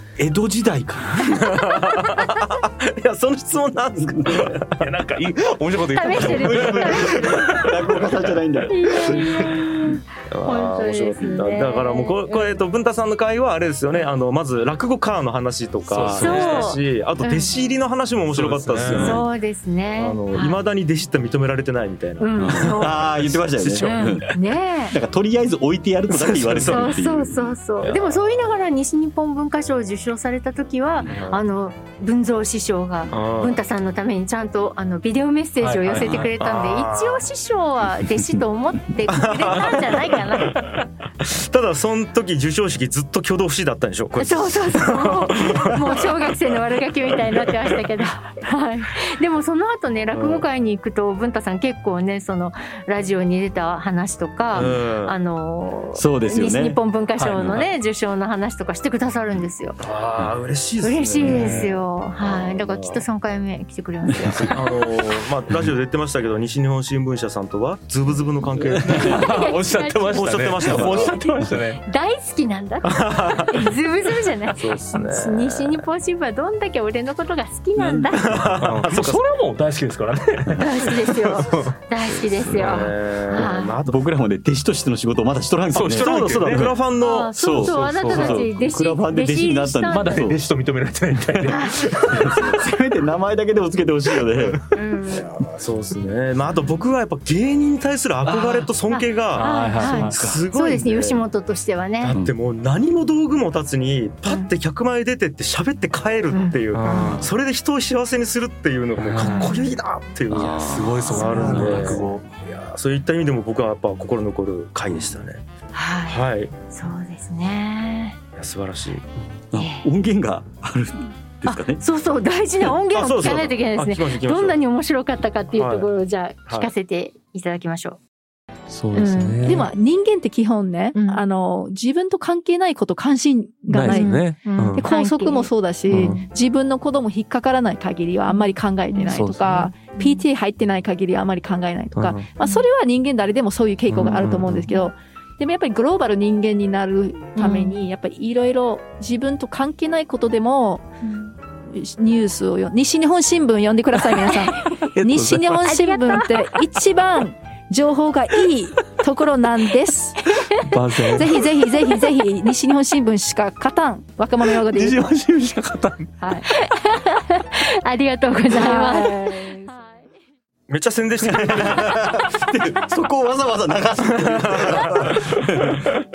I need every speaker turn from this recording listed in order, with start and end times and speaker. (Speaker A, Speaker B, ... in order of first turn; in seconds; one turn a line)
Speaker A: 0.2-1.5
Speaker B: 1.2-4.9
Speaker A: 4.0-4.6
Speaker C: 4.7-7.8
Speaker D: 5.9-7.7
Speaker A: 6.1-9.5
Speaker D: 8.7-12.6
Speaker B: 10.3-19.3
Speaker C: 15.9-16.8
Speaker D: 16.1-17.5
Speaker C: 18.3-19.2
Speaker D: 18.9-20.6
Speaker B: 20.0-24.4
Speaker D: 22.2-23.2
Speaker A: 22.4-27.6
Speaker D: 23.8-25.0
Speaker B: 26.1-27.0
Speaker D: 26.6-40.8
Speaker B: 27.8-28.2
Speaker B: 31.1-31.4
Speaker B: 33.1-33.6
Speaker C: 35.6-37.2
Speaker B: 39.1-46.6
Speaker D: 44.2-59.8
Speaker B: 50.1-50.5
Speaker B: 54.5-55.2
Speaker A: 56.0-56.8
Speaker C: 57.2-57.6
Speaker B: 59.8-63.0
Speaker D: 60.8-64.9
Speaker C: 61.2-61.7
Speaker B: 64.2-69.5
Speaker A: 68.7-69.1
Speaker C: 68.8-71.8
Speaker D: 68.9-78.4
Speaker B: 70.1-71.2
Speaker B: 72.8-73.8
Speaker B: 74.5-75.8
Speaker B: 77.8-79.3
Speaker C: 78.5-81.7
Speaker D: 80.6-83.8
Speaker A: 82.5-82.8
Speaker B: 82.5-84.0
Speaker A: 83.3-86.8
Speaker C: 85.7-86.7
Speaker B: 85.8-87.6
Speaker D: 87.0-90.3
Speaker A: 87.3-90.4
Speaker C: 87.7-88.5
Speaker C: 89.9-92.5
Speaker A: 91.3-94.6
Speaker D: 91.5-91.9
Speaker D: 94.7-95.3
Speaker B: 95.1-101.2
Speaker A: 98.2-98.7
Speaker D: 98.9-102.2
Speaker C: 99.3-100.2
Speaker A: 100.0-100.4
Speaker B: 102.0-115.4
Speaker D: 106.3-107.2
Speaker C: 106.7-107.3
Speaker C: 109.0-109.6
Speaker D: 109.2-109.7
Speaker A: 110.3-112.0
Speaker C: 110.5-112.3
Speaker D: 111.1-111.9
Speaker D: 115.7-118.2
Speaker B: 116.1-116.5
Speaker B: 118.4-119.1
Speaker A: 119.5-121.8
Speaker D: 119.5-119.9
Speaker D: 121.5-128.0
Speaker B: 122.9-124.6
Speaker B: 125.5-125.9
Speaker C: 128.7-129.7
Speaker D: 128.9-129.6
Speaker E: 129.4-150.9
Speaker D: 130.9-131.2
Speaker C: 133.7-134.8
Speaker D: 133.8-136.2
Speaker C: 135.9-136.2
Speaker D: 138.3-139.1
Speaker C: 139.1-139.7
Speaker D: 140.0-140.2
Speaker C: 141.9-142.3
Speaker C: 143.9-144.7
Speaker D: 144.0-144.9
Speaker D: 147.4-147.8
Speaker D: 151.0-151.3
Speaker E: 151.7-160.3
Speaker C: 154.8-155.7
Speaker D: 155.6-156.6
Speaker D: 160.3-160.7
Speaker C: 160.5-161.4
Speaker E: 161.1-165.1
Speaker C: 164.6-166.2
Speaker D: 166.3-169.9
Speaker E: 168.5-169.8
Speaker B: 170.7-172.1
Speaker A: 171.2-175.8
Speaker B: 174.1-175.4